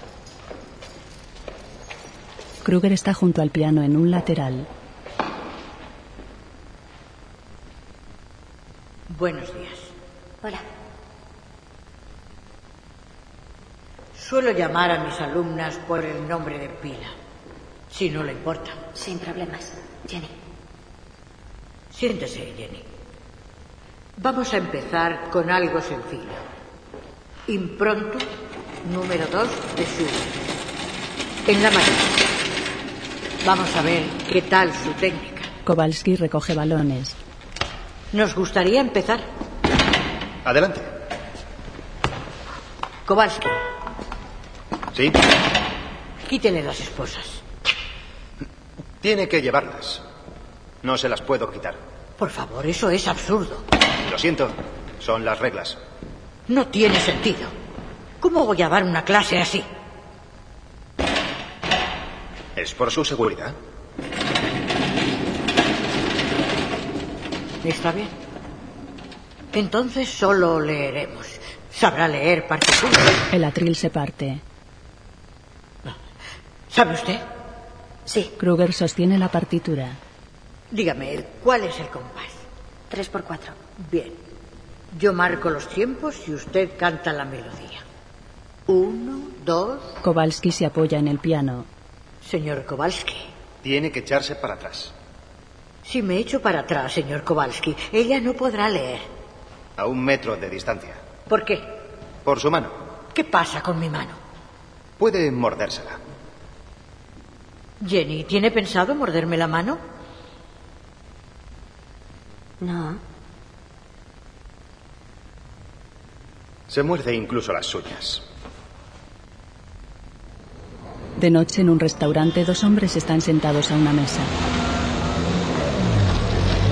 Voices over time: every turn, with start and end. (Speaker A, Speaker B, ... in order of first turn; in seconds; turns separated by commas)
Speaker A: 2.6-4.7, Speaker B: 9.1-9.9, Speaker B: 14.2-17.1, Speaker B: 17.9-18.8, Speaker C: 18.9-20.3, Speaker B: 21.9-22.9, Speaker B: 24.2-26.4, Speaker B: 27.5-28.3, Speaker B: 28.8-30.3, Speaker B: 31.5-32.2, Speaker B: 33.4-35.5, Speaker A: 35.6-37.2, Speaker B: 38.1-39.2, Speaker D: 40.5-40.9, Speaker B: 43.1-43.5, Speaker B: 46.3-47.4, Speaker D: 49.0-50.0, Speaker D: 50.8-51.8, Speaker B: 52.2-53.6, Speaker D: 54.0-55.8, Speaker B: 56.5-57.5, Speaker B: 58.2-59.7, Speaker D: 62.6-63.5, Speaker B: 67.6-68.1, Speaker B: 69.5-73.2, Speaker A: 73.3-74.4, Speaker B: 76.7-77.2, Speaker C: 78.1-78.3, Speaker A: 78.4-80.0, Speaker B: 80.7-82.4, Speaker C: 82.9-83.6, Speaker B: 83.8-84.2, Speaker B: 84.9-87.8, Speaker B: 88.7-90.0, Speaker A: 90.0-91.7, Speaker B: 92.2-93.3, Speaker D: 93.6-94.9, Speaker B: 95.8-99.1, Speaker D: 99.8-101.0, Speaker B: 101.3-101.7, Speaker D: 102.2-102.8, Speaker B: 103.1-104.2, Speaker D: 105.0-106.0, Speaker B: 107.8-109.8, Speaker C: 112.6-113.0, Speaker D: 116.7-118.2, Speaker A: 121.2-124.3